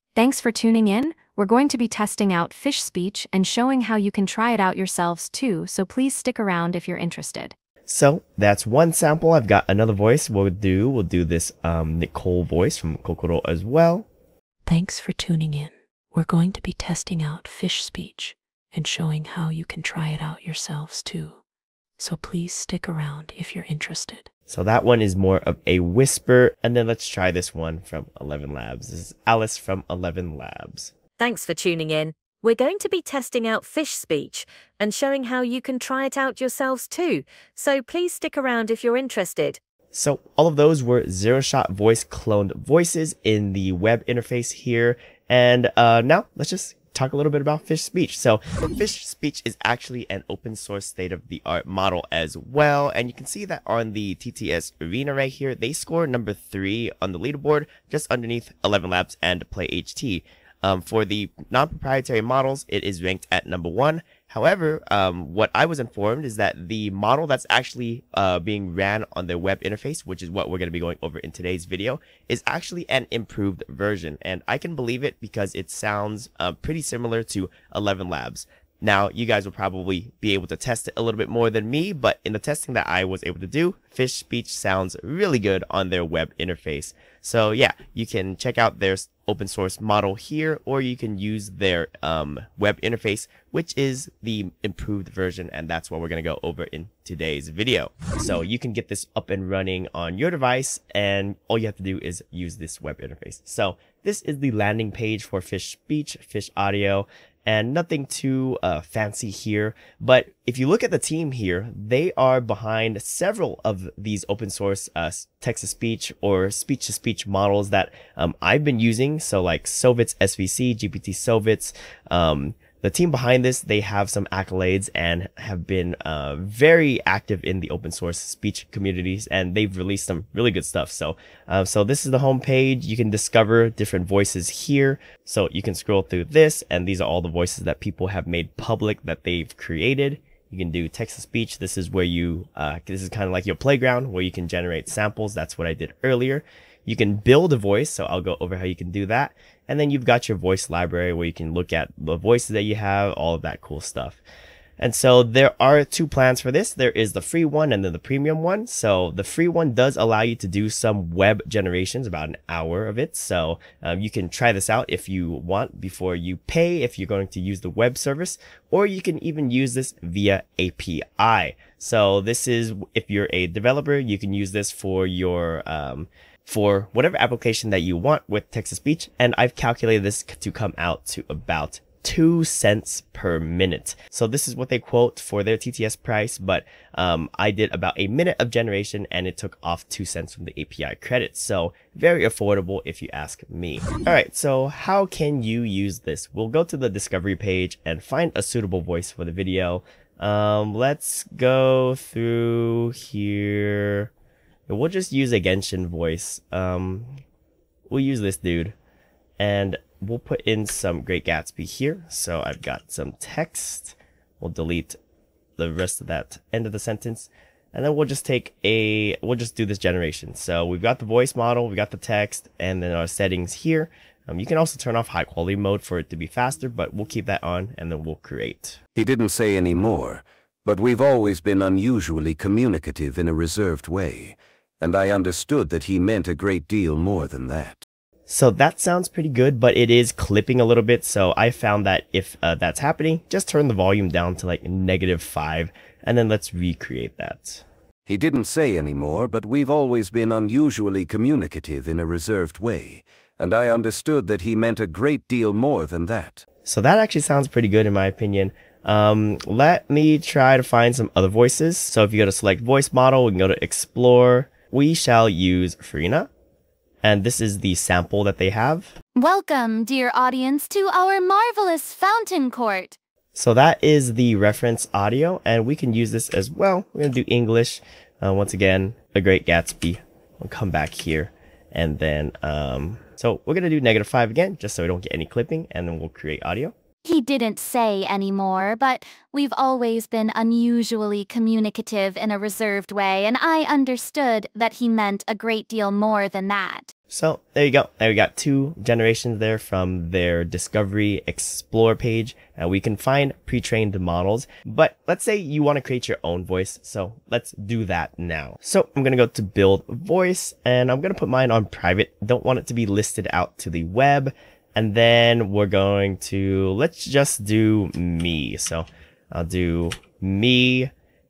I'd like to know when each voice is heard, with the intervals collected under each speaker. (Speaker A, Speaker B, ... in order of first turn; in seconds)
Speaker A: 0.1-7.5
Speaker B: 7.9-14.1, 24.5-30.9, 39.9-154.2, 154.8-204.1, 204.7-207.2, 207.9-208.7, 209.4-215.0, 215.6-228.8, 238.3-247.6, 256.6-266.3, 267.0-268.9, 273.3-286.7, 297.1-320.9
Speaker C: 14.7-21.4, 22.0-24.3
Speaker D: 31.2-39.6
Speaker E: 229.0-237.8, 248.1-256.4
Speaker F: 269.2-272.9, 287.1-296.9